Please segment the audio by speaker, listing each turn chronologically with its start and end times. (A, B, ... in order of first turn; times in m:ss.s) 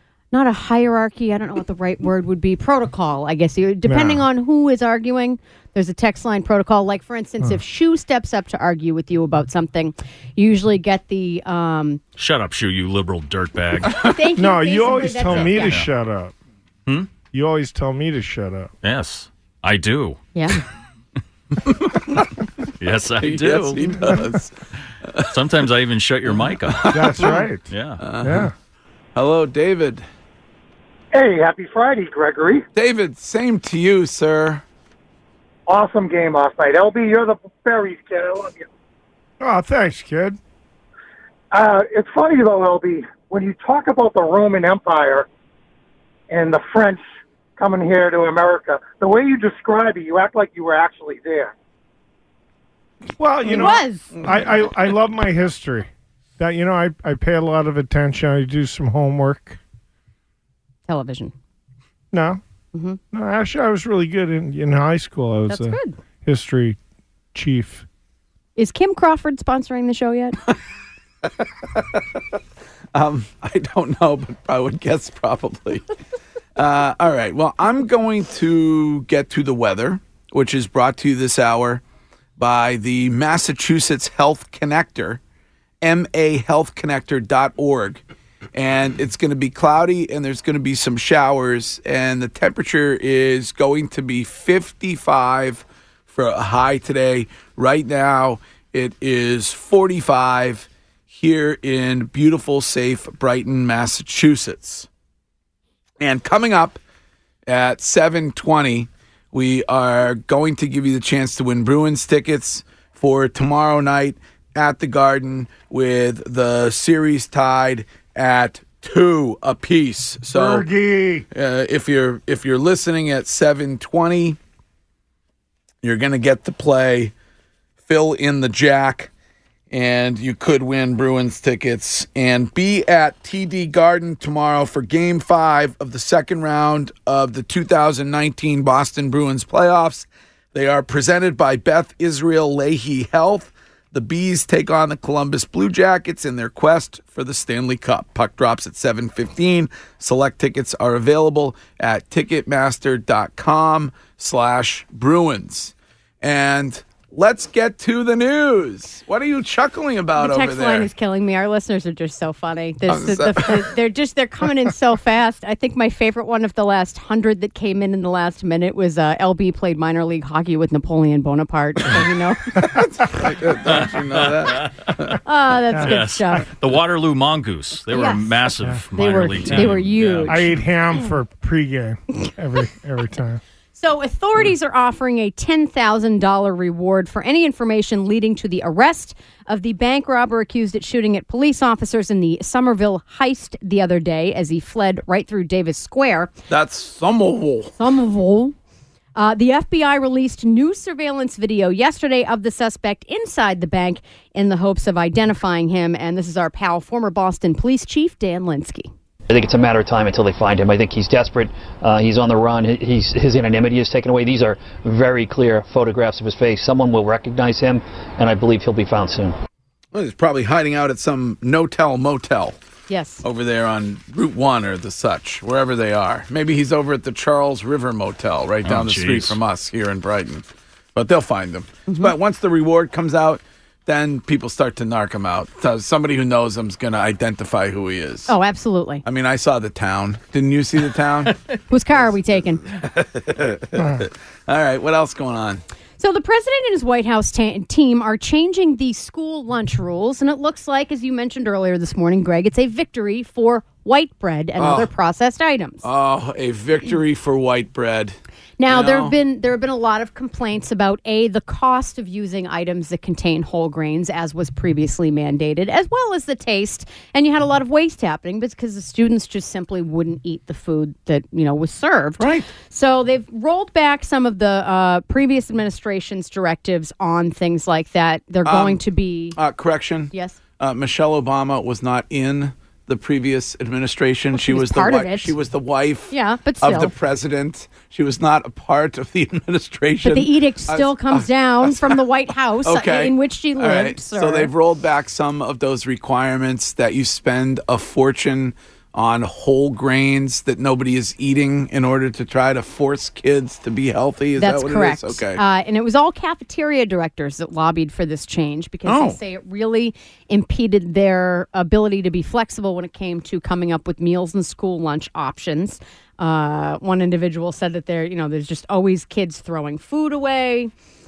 0:00.3-0:12.0 A
0:03.8-0:04.2 B
0:12.2-0:14.0 C
0:14.0-0:15.8 A
0:14.3-0:16.3 B
0:15.2-0:15.9 C
0:17.3-0:18.7 B
0:18.8-0:20.2 C
0:20.3-0:20.6 A
0:21.7-0:22.2 D
0:22.8-0:24.1 C
0:23.2-0:24.5 D
0:25.3-0:28.0 C
0:26.7-0:27.4 D
0:26.9-0:28.5 B
0:28.0-0:28.5 D
0:29.2-0:30.0 D
0:31.1-0:32.6 E
0:32.7-0:34.6 D
0:35.7-0:38.6 E
0:39.4-0:40.4 B
0:41.5-0:45.2 E
0:46.3-0:47.0 E
0:47.6-0:51.5 E
0:53.1-0:59.6 B
0:53.4-0:54.1 A
1:00.9-1:01.3 A
1:02.1-1:02.4 B
1:02.7-1:03.0 A
1:03.1-1:06.8 B
1:05.5-1:06.0 A
1:07.3-1:07.8 B
1:08.6-1:10.4 A
1:12.9-1:15.8 D
1:16.6-1:21.8 D
1:22.4-1:25.2 D
1:25.8-1:28.0 D
1:28.5-1:44.9 D
1:46.0-1:46.8 D
1:47.5-2:00.7 D
2:00.3-2:01.3 B
2:01.3-2:04.4 D
2:05.8-2:07.1 D
2:07.8-2:09.1 D
2:09.7-2:40.9 D
2:40.2-2:52.5 A
2:42.9-2:43.7 D
2:52.7-2:55.2 D
2:53.7-2:54.9 C
2:55.2-2:56.5 A
2:55.8-3:00.5 C
2:57.9-3:00.5 A
3:00.3-3:03.4 B
3:03.8-3:16.3 A
3:16.5-3:17.7 D
3:17.8-3:18.5 A
3:19.2-3:28.9 A
3:29.3-3:39.3 F
3:39.9-3:42.6 D
3:42.9-3:43.2 A
3:43.2-3:50.4 D
3:48.6-3:49.4 C
3:50.9-3:58.3 D
3:51.9-3:52.1 A
3:58.3-3:59.0 A
3:59.0-4:01.3 D
4:01.7-4:02.6 A
4:02.8-4:05.6 D
4:03.8-4:04.0 B
4:06.0-4:15.8 A
4:14.6-4:14.9 D
4:15.8-4:18.2 D
4:18.6-4:39.4 A
4:18.7-4:19.1 D
4:32.2-4:32.5 D
4:38.4-4:38.8 D
4:39.3-4:51.9 D
4:40.1-4:40.4 A
4:44.3-4:45.3 A
4:46.1-4:46.9 A
4:50.0-4:54.5 A
4:52.6-5:05.4 D
5:04.4-5:20.7 A
5:08.8-5:09.2 D